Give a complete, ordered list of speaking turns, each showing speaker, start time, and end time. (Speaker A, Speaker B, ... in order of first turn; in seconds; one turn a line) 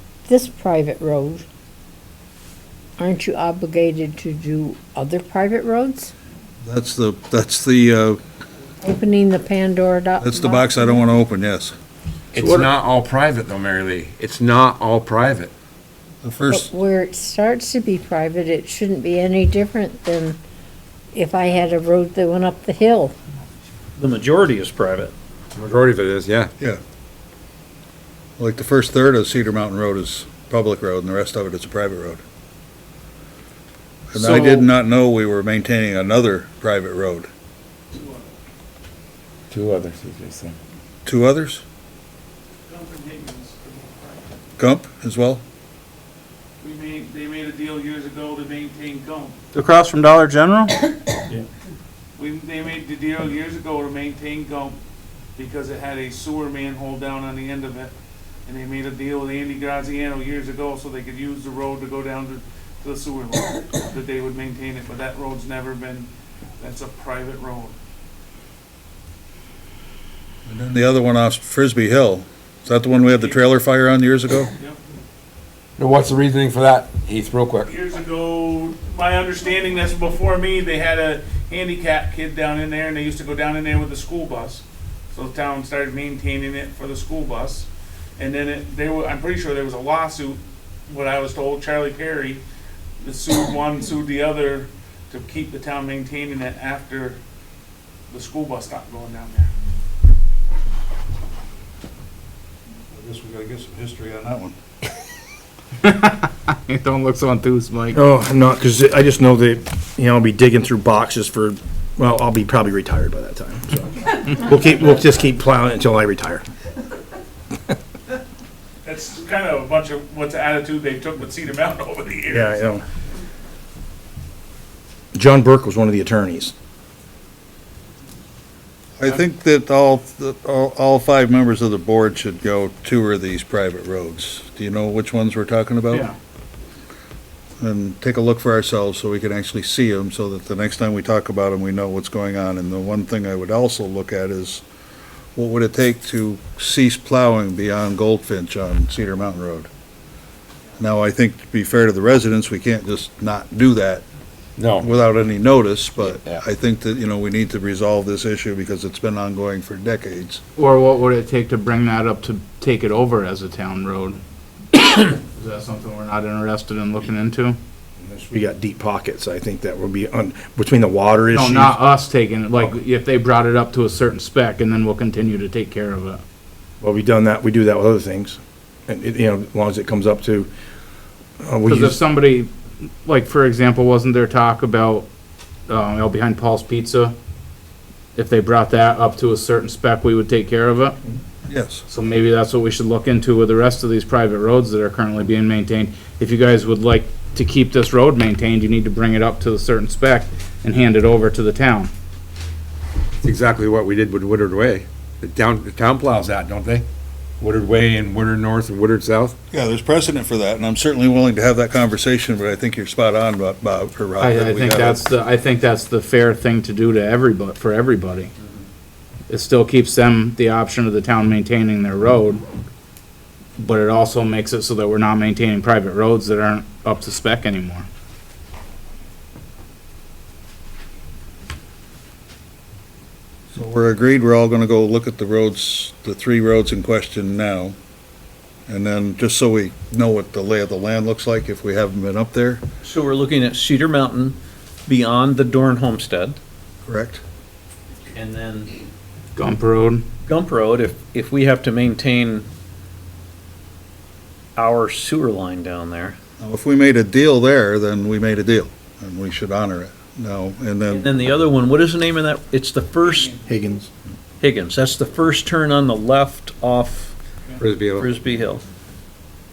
Speaker A: 0.2-1.4
Speaker A: 3.0-6.1
Speaker B: 6.6-8.2
Speaker A: 8.8-11.0
Speaker B: 10.2-11.7
Speaker C: 12.3-15.5
Speaker D: 12.4-12.7
Speaker B: 16.2-16.7
Speaker A: 16.5-20.4
Speaker A: 21.1-23.1
Speaker E: 24.0-25.1
Speaker C: 25.5-26.5
Speaker B: 28.4-32.2
Speaker B: 34.1-37.3
Speaker F: 37.9-38.2
Speaker C: 39.5-40.5
Speaker B: 41.0-41.6
Speaker F: 42.7-44.2
Speaker B: 44.6-45.4
Speaker F: 46.6-49.3
Speaker D: 49.5-50.8
Speaker F: 52.2-54.8
Speaker F: 55.4-57.9
Speaker F: 58.5-66.1
Speaker F: 66.6-67.7
Speaker B: 70.5-74.5
Speaker C: 75.8-77.7
Speaker F: 77.8-84.6
Speaker F: 85.1-87.7
Speaker F: 88.2-92.4
Speaker F: 93.0-97.2
Speaker F: 98.1-99.5
Speaker B: 102.9-104.5
Speaker D: 105.8-108.0
Speaker G: 107.9-116.4
Speaker F: 118.8-122.5
Speaker G: 122.3-122.8
Speaker G: 125.1-126.5
Speaker B: 129.0-136.1
Speaker D: 135.9-136.1
Speaker B: 137.6-144.6
Speaker B: 145.3-149.7
Speaker B: 150.8-154.0
Speaker C: 154.6-154.9
Speaker B: 154.8-160.4
Speaker C: 156.0-156.4
Speaker D: 160.6-164.2
Speaker D: 164.7-167.6
Speaker G: 168.0-171.8
Speaker D: 171.3-176.2
Speaker G: 176.8-180.5
Speaker G: 181.4-182.0
Speaker D: 181.7-182.5
Speaker D: 183.0-185.1
Speaker D: 185.7-187.1
Speaker D: 188.1-191.0
Speaker B: 191.4-191.8
Speaker D: 191.9-201.9
Speaker C: 203.2-206.8
Speaker C: 207.4-209.3
Speaker B: 209.5-215.0
Speaker D: 214.2-218.3
Speaker D: 219.3-222.4
Speaker D: 223.6-227.9
Speaker B: 233.5-237.7
Speaker B: 238.7-242.6
Speaker E: 242.8-246.4
Speaker B: 246.8-247.2
Speaker E: 248.1-248.7
Speaker D: 249.3-250.0
Speaker E: 250.2-252.5
Speaker E: 254.6-256.2
Speaker B: 256.4-261.1
Speaker E: 260.9-263.4
Speaker G: 263.5-263.9
Speaker E: 264.4-267.1
Speaker C: 267.6-268.1
Speaker E: 267.9-268.6